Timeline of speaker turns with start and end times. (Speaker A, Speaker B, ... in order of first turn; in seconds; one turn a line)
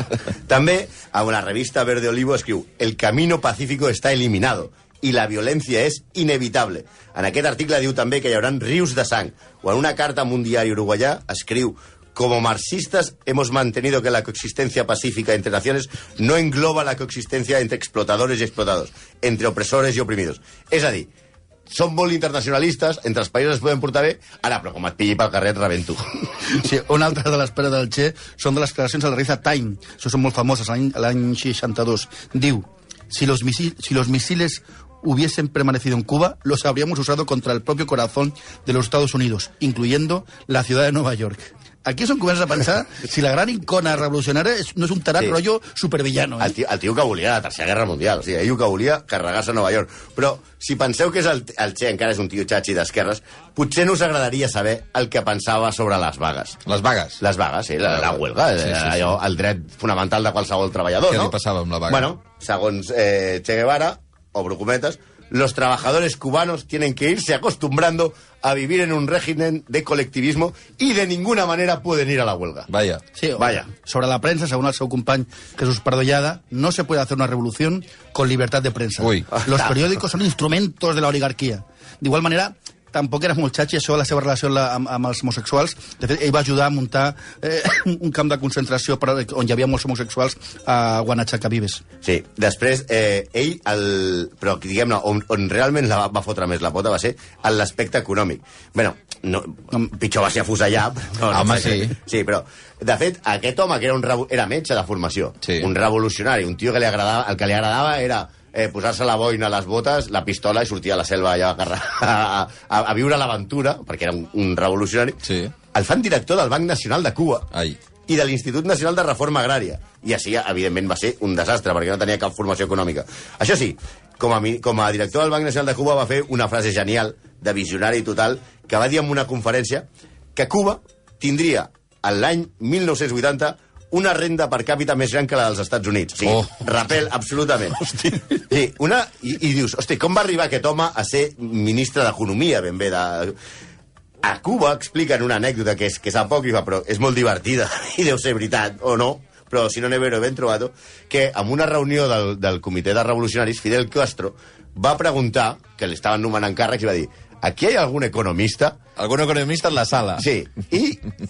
Speaker A: 0.5-21.1
Speaker A: 21.7-26.1
Speaker B: 26.4-46.5
Speaker A: 46.4-56.6
Speaker C: 56.6-57.2
Speaker A: 57.2-61.4
Speaker C: 58.6-59.1
Speaker C: 61.1-62.1
Speaker A: 61.9-72.7
Speaker C: 72.7-73.0
Speaker B: 73.1-91.8
Speaker A: 73.4-73.7
Speaker C: 79.0-79.3
Speaker A: 92.0-115.2
Speaker C: 101.3-102.0
Speaker C: 105.4-105.7
Speaker C: 115.2-115.5
Speaker A: 115.7-117.5
Speaker C: 117.5-117.8
Speaker A: 118.1-143.3
Speaker C: 136.3-136.5
Speaker A: 144.2-158.8
Speaker C: 159.0-160.2
Speaker A: 160.2-161.1